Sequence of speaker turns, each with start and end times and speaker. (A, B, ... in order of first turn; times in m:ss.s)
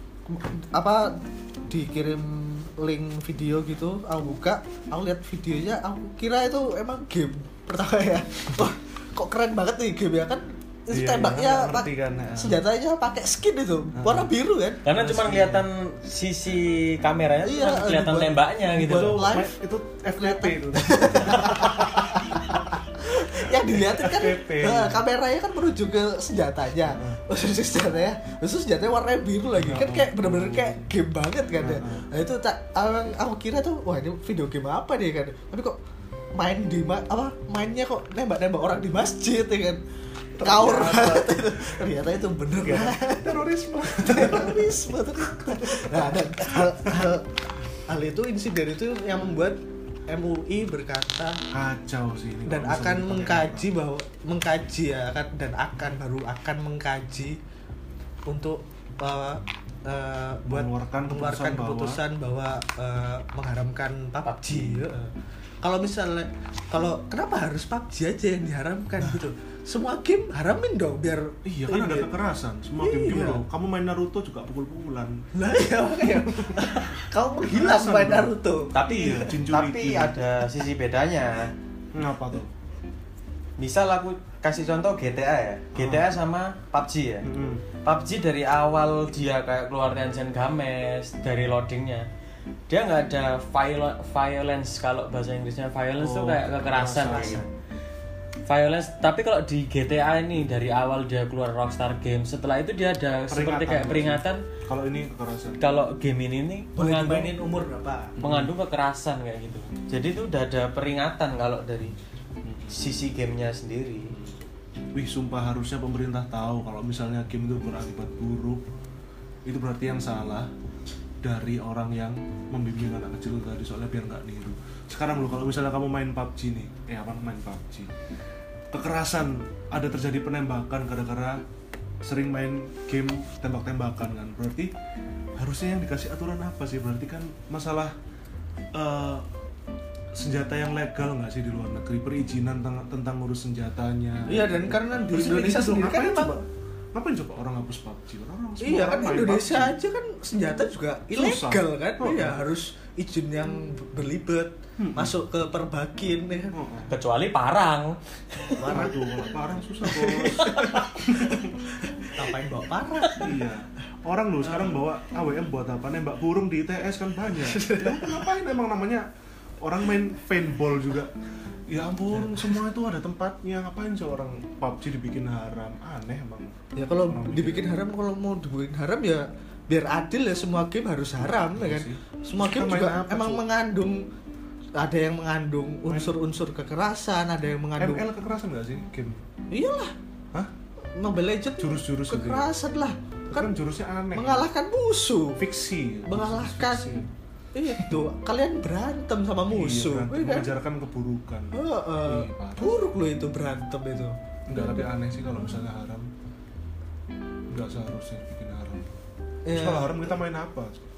0:00.3-0:14.8 A
0:10.9-0:12.6 B
0:13.9-0:14.3 B
0:14.8-0:19.3 C
0:14.8-0:15.6 B
0:17.4-0:19.6 A
0:18.8-0:22.4 B
0:20.1-0:35.8 A
0:23.0-0:25.0 B
0:26.9-0:27.2 B
0:29.5-0:30.9 B
0:31.6-0:32.1 B
0:36.3-0:39.8 A
0:40.4-0:47.4 A
0:40.4-0:41.8 B
0:42.6-0:46.9 B
0:47.9-0:51.4 A
0:51.5-0:53.7 B
0:52.5-0:57.4 A
0:58.3-1:12.1 A
1:00.4-1:02.0 B
1:11.4-1:15.2 B
1:12.8-1:13.4 A
1:15.3-1:18.7 A
1:16.1-1:20.2 B
1:18.7-1:21.5 C
1:21.9-1:22.5 B
1:23.6-1:27.3 C
1:25.7-1:26.1 B
1:27.2-1:27.6 B
1:27.8-1:32.0 C
1:32.7-1:37.4 C
1:36.0-1:37.4 B
1:37.1-1:37.4 A
1:38.4-1:44.4 C
1:43.3-1:45.6 B
1:45.6-1:47.4 C
1:46.8-1:48.2 A
1:48.2-1:48.5 B
1:48.2-1:51.9 C
1:52.4-1:52.9 B
1:52.7-1:54.2 C
1:54.1-1:54.4 B
1:54.9-1:58.6 B
1:59.4-2:00.5 B
2:01.2-2:07.9 B
2:08.7-2:11.4 B
2:12.0-2:14.7 B
2:15.4-2:17.9 B
2:18.7-2:19.2 B
2:20.1-2:29.8 B
2:24.3-2:26.4 A
2:28.6-2:36.5 A
2:31.1-2:32.4 B
2:34.8-2:35.2 B
2:36.5-2:36.9 B
2:36.9-2:38.8 C
2:38.4-2:39.3 A
2:38.6-2:41.5 B
2:39.8-2:43.2 A
2:43.2-2:49.0 B
2:44.4-2:44.8 A
2:47.3-2:48.2 A
2:49.6-2:51.1 B
2:51.7-2:57.8 B
2:56.8-3:04.0 A
3:01.5-3:03.4 B
3:04.8-3:08.0 A
3:05.8-3:06.2 B
3:07.8-3:09.2 B
3:09.5-3:09.9 A
3:10.9-3:13.5 A
3:11.6-3:12.5 B
3:13.3-3:14.4 B
3:14.1-3:15.4 A
3:15.4-3:17.1 B
3:16.1-3:17.0 A
3:17.5-3:20.5 A
3:17.7-3:18.0 B
3:19.5-3:22.9 B
3:21.5-3:24.8 A
3:24.5-3:26.1 B
3:27.5-3:28.8 B
3:29.4-3:30.2 A
3:29.5-3:30.8 B